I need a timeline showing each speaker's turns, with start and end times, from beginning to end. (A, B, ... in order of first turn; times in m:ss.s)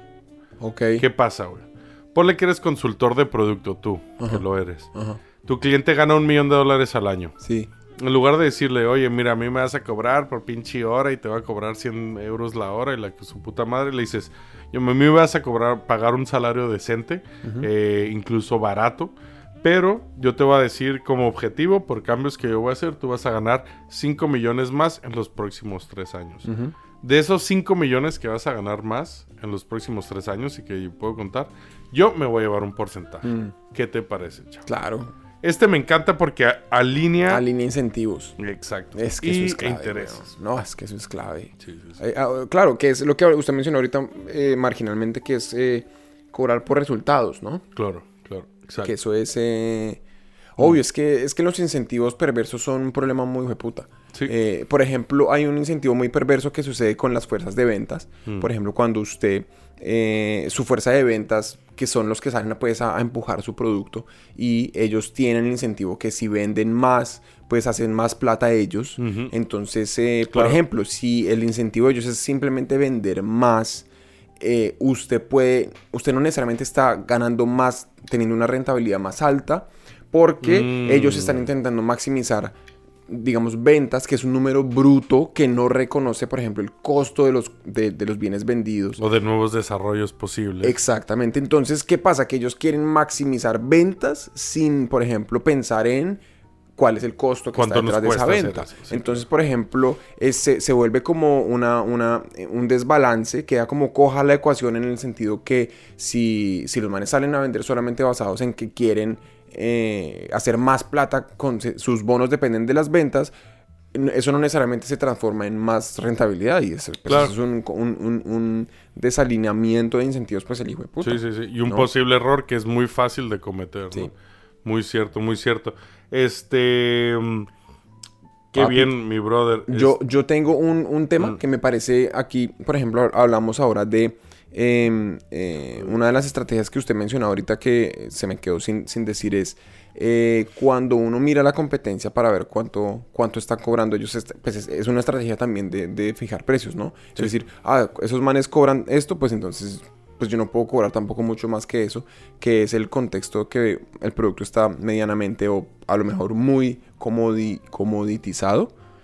0:00.6-0:01.0 A
0:01.0-0:04.9 B
0:04.9-0:05.2 A
0:05.4-0:07.4 B
0:07.4-0:07.7 A
0:08.0-0:26.5 B
0:17.4-0:17.7 A
0:26.4-0:26.7 A
0:27.0-0:34.7 B
0:33.2-0:33.5 A
0:34.7-0:35.1 A
0:35.4-0:37.4 B
0:37.3-0:38.4 A
0:38.4-0:40.3 B
0:38.9-0:47.6 A
0:41.6-0:42.0 B
0:47.8-0:48.9 B
0:48.8-0:50.0 A
0:50.6-1:13.9 A
1:09.0-1:09.3 B
1:10.3-1:10.6 B
1:14.4-1:22.6 A
1:20.4-1:21.5 B
1:23.1-1:29.0 A
1:29.0-1:30.8 B
1:30.6-1:36.2 A
1:36.8-1:53.3 A
1:37.5-1:39.2 B
1:53.9-2:01.9 A
1:57.1-1:57.3 B
2:01.0-2:04.1 B
2:04.6-2:07.5 B
2:08.5-2:10.0 B
2:08.5-2:08.9 A
2:09.7-2:38.7 A